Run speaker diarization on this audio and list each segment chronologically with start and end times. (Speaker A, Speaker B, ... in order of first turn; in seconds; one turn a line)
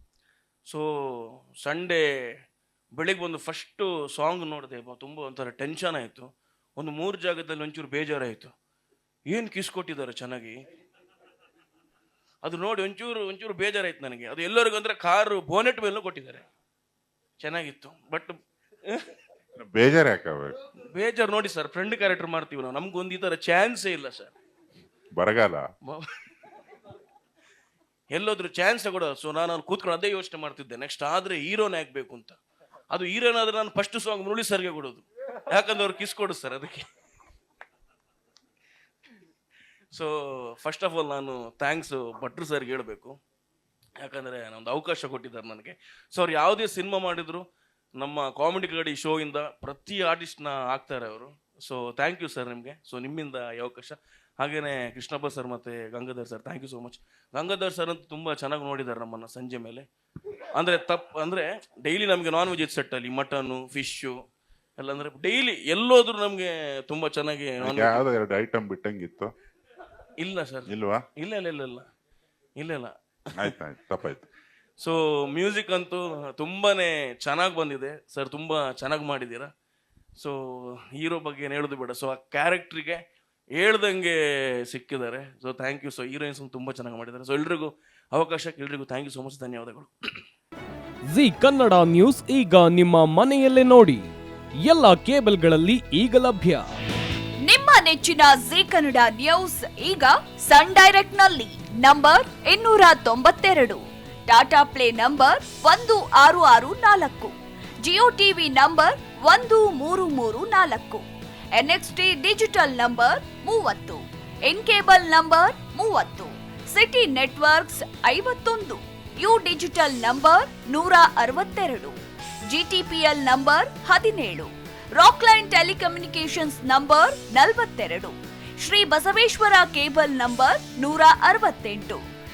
Speaker A: 0.7-2.1
Speaker A: 3.0-8.5
Speaker A: 9.3-10.6
Speaker A: 12.4-16.4
Speaker A: 17.4-19.1
Speaker B: 19.6-20.6
Speaker A: 20.9-24.4
Speaker B: 25.1-25.6
Speaker A: 28.1-32.4
Speaker A: 32.9-36.9
Speaker A: 39.9-43.2
Speaker A: 44.0-47.5
Speaker A: 48.0-59.9
Speaker A: 60.5-64.2
Speaker A: 64.8-68.0
Speaker B: 67.6-69.3
Speaker A: 70.2-71.9
Speaker B: 70.7-71.0
Speaker A: 72.6-73.5
Speaker B: 73.3-74.3
Speaker A: 74.8-79.5
Speaker A: 80.2-83.0
Speaker A: 83.6-90.2
Speaker C: 91.1-94.1
Speaker C: 94.6-96.7
Speaker D: 97.4-107.3
Speaker D: 107.8-111.0
Speaker D: 111.6-122.0
Speaker D: 122.5-132.0